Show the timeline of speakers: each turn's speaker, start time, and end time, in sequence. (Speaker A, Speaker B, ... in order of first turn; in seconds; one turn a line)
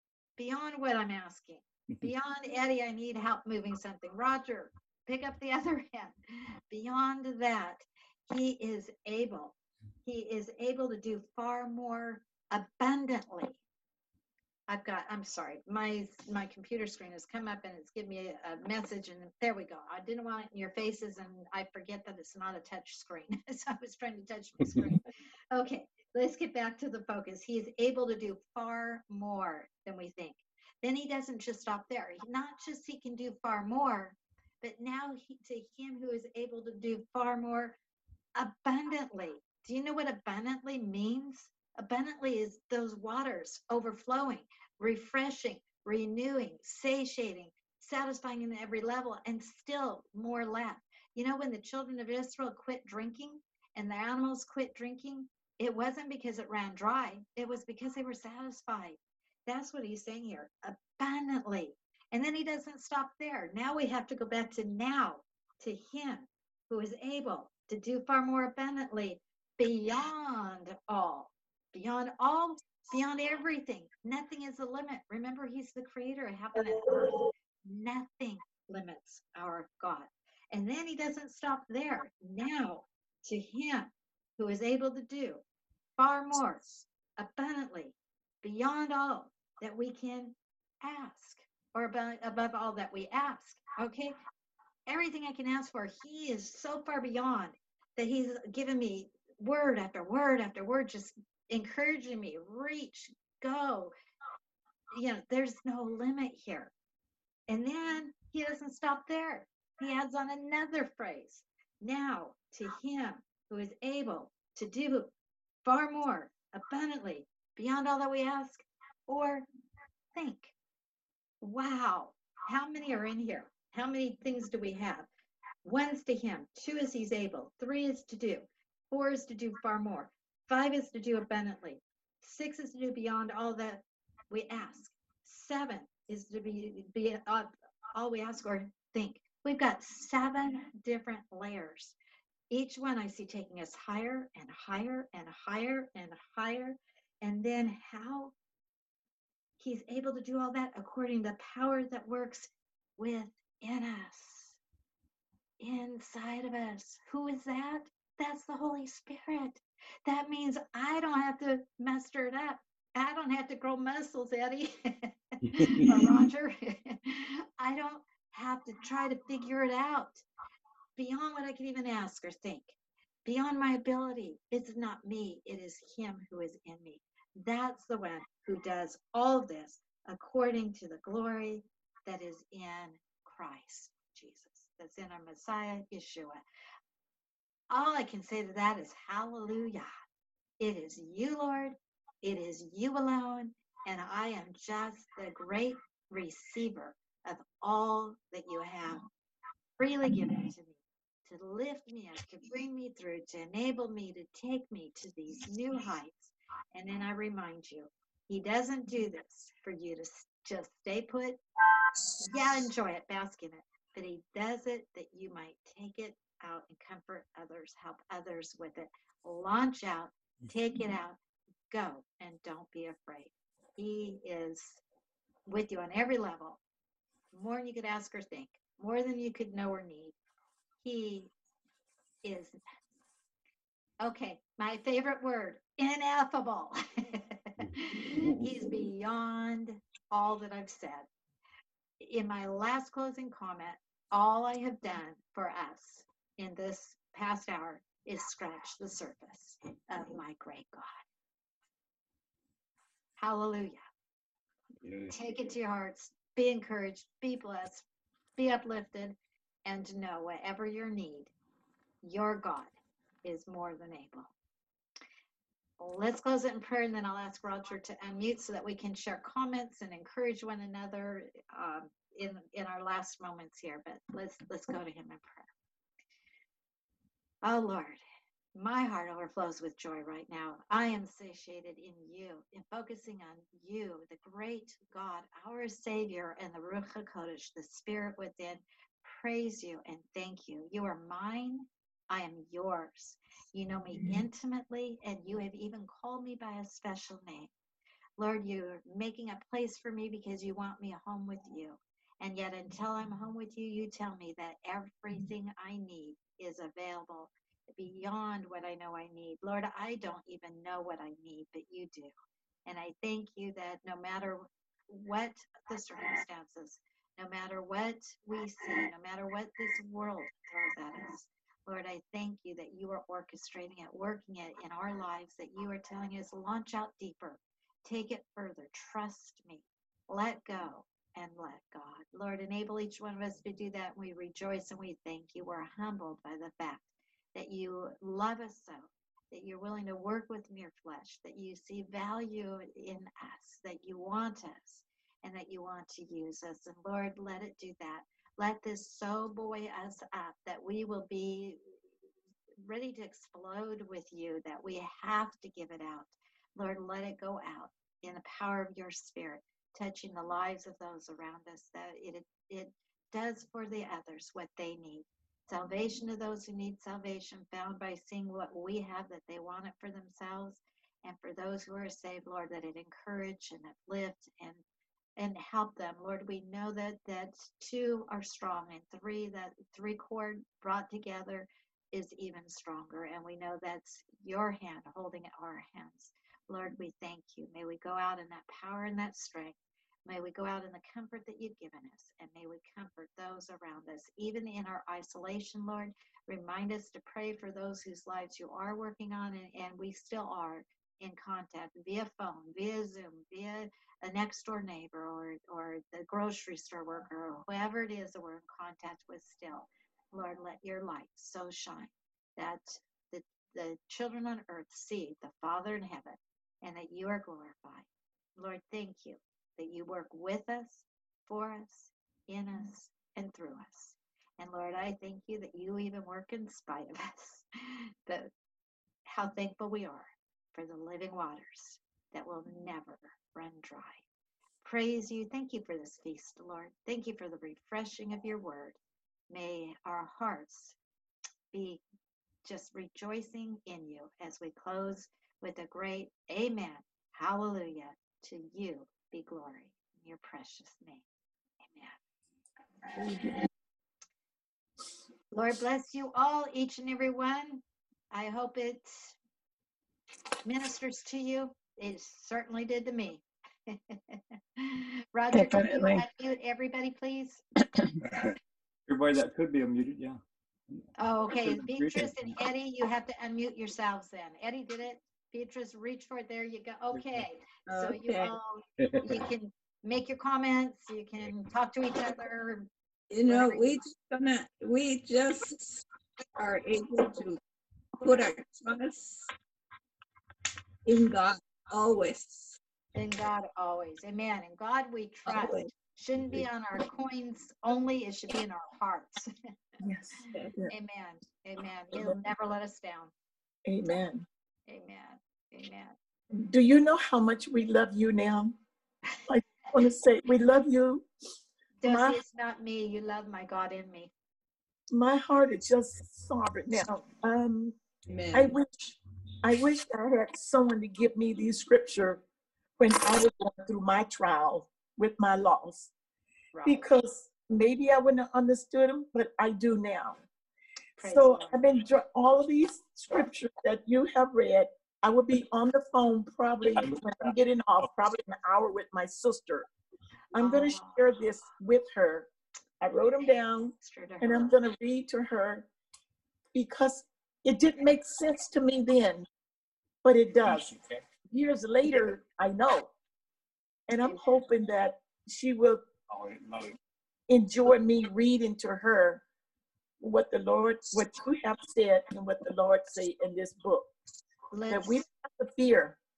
Speaker A: 0.4-13.6
Speaker A: 14.7-37.8
Speaker A: 38.4-85.4
Speaker A: 86.0-94.1
Speaker A: 94.9-103.9
Speaker A: 104.9-106.7
Speaker A: 107.5-115.1
Speaker A: 115.6-119.4
Speaker A: 120.1-120.5
Speaker A: 121.4-125.1
Speaker A: 125.6-141.9
Speaker A: 142.5-148.3
Speaker A: 149.6-154.6
Speaker A: 155.6-170.2
Speaker A: 170.9-186.4
Speaker A: 187.7-189.9
Speaker A: 190.6-199.0
Speaker A: 199.8-211.4
Speaker A: 212.2-221.2
Speaker A: 221.7-224.8
Speaker A: 225.5-226.6
Speaker A: 227.3-230.1
Speaker A: 230.8-231.3
Speaker A: 232.2-232.6
Speaker A: 234.0-241.1
Speaker A: 242.0-250.9
Speaker A: 253.2-253.8
Speaker B: 254.8-255.1
Speaker A: 255.1-257.8
Speaker A: 258.4-261.3
Speaker A: 262.0-262.7
Speaker A: 263.2-264.3
Speaker A: 265.8-275.5
Speaker A: 277.4-278.0
Speaker A: 278.5-297.5
Speaker A: 298.2-312.1
Speaker A: 312.6-351.7
Speaker A: 352.6-374.6
Speaker A: 375.2-428.3
Speaker A: 429.1-434.0
Speaker A: 434.6-438.8
Speaker A: 439.3-440.8
Speaker A: 441.5-441.8
Speaker A: 442.4-451.0
Speaker A: 451.6-452.0
Speaker A: 455.3-459.1
Speaker A: 460.4-467.4
Speaker C: 465.3-466.0
Speaker B: 468.0-468.3
Speaker B: 468.9-470.2
Speaker A: 471.0-482.7
Speaker B: 471.3-472.1
Speaker D: 477.7-478.3
Speaker B: 478.8-479.2
Speaker D: 483.1-485.8
Speaker A: 483.3-483.8
Speaker D: 486.3-487.4
Speaker D: 488.0-489.3
Speaker D: 490.8-492.6
Speaker A: 492.9-499.3
Speaker C: 495.3-495.6
Speaker C: 499.8-500.7
Speaker A: 500.7-503.1
Speaker C: 503.6-504.2
Speaker A: 504.7-505.9
Speaker C: 506.3-508.5
Speaker C: 509.3-511.1
Speaker A: 511.8-514.1
Speaker C: 511.8-512.2
Speaker C: 514.9-517.8
Speaker D: 518.1-518.6
Speaker C: 518.3-522.2
Speaker C: 522.8-525.9
Speaker A: 526.5-526.9
Speaker C: 526.6-530.2
Speaker A: 531.0-531.6
Speaker C: 531.0-539.7
Speaker C: 540.3-542.3
Speaker A: 540.4-541.1
Speaker C: 542.8-545.7
Speaker A: 543.2-544.5
Speaker C: 546.5-549.2
Speaker C: 550.0-550.8
Speaker C: 551.3-552.9
Speaker C: 553.9-555.8
Speaker B: 556.1-556.8
Speaker C: 557.3-559.2
Speaker C: 560.0-563.9
Speaker A: 564.5-565.0
Speaker C: 564.7-566.0